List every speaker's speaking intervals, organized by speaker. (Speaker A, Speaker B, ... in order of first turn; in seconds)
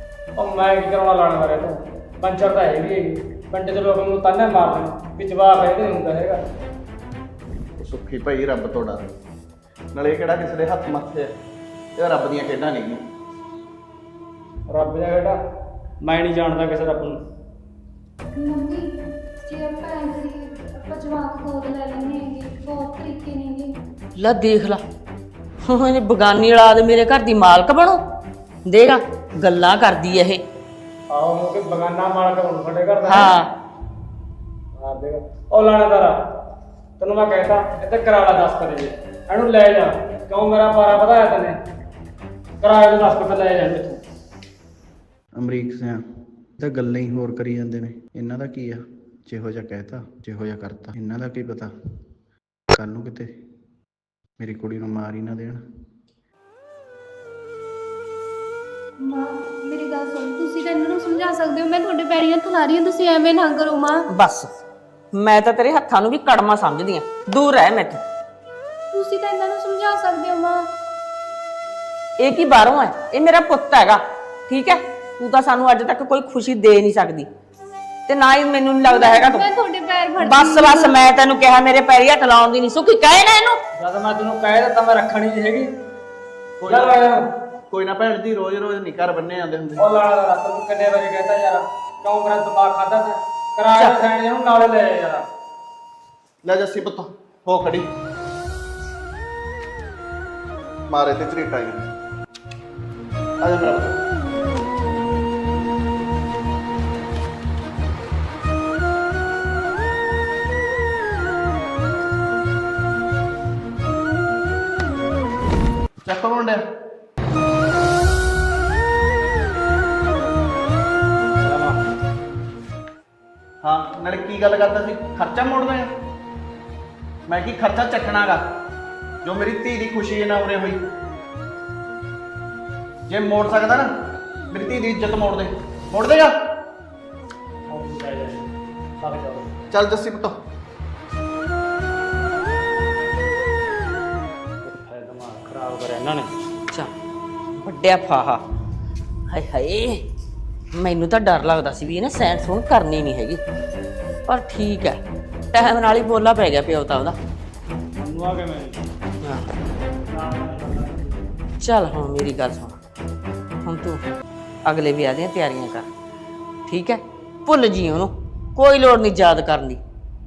Speaker A: 0.4-6.4, 14.7-15.4, 16.0-17.2, 31.1-33.3, 34.8-36.2, 37.0-41.6, 42.6-44.0, 83.8-85.7, 86.7-87.3, 89.8-95.3, 121.4-121.8, 137.7-139.6, 144.6-146.3, 158.0-158.8, 160.1-161.2
Speaker B: 7.8-9.1, 9.9-11.3, 12.0-13.0, 45.4-46.0, 46.6-51.7, 52.7-53.4, 54.4-55.6, 86.6-87.1, 87.7-89.9, 96.4-97.9, 100.9-101.9, 103.4-104.0, 116.1-116.6, 123.6-125.9, 127.3-128.4, 129.2-130.8, 133.1-133.9, 134.5-136.5, 139.7-140.4
Speaker C: 18.4-23.7, 59.0-64.1, 68.9-70.7, 78.9-81.0
Speaker D: 24.2-24.8, 25.6-28.0, 28.7-30.4, 33.0-33.5, 64.1-64.5, 65.1-68.0, 72.2-77.3, 78.1-79.5, 80.2-83.6, 147.6-148.4, 149.3-150.1, 150.7-153.4, 154.3-155.0, 155.5-157.2, 161.6-162.8, 163.6-164.0, 164.7-165.9, 166.7-169.8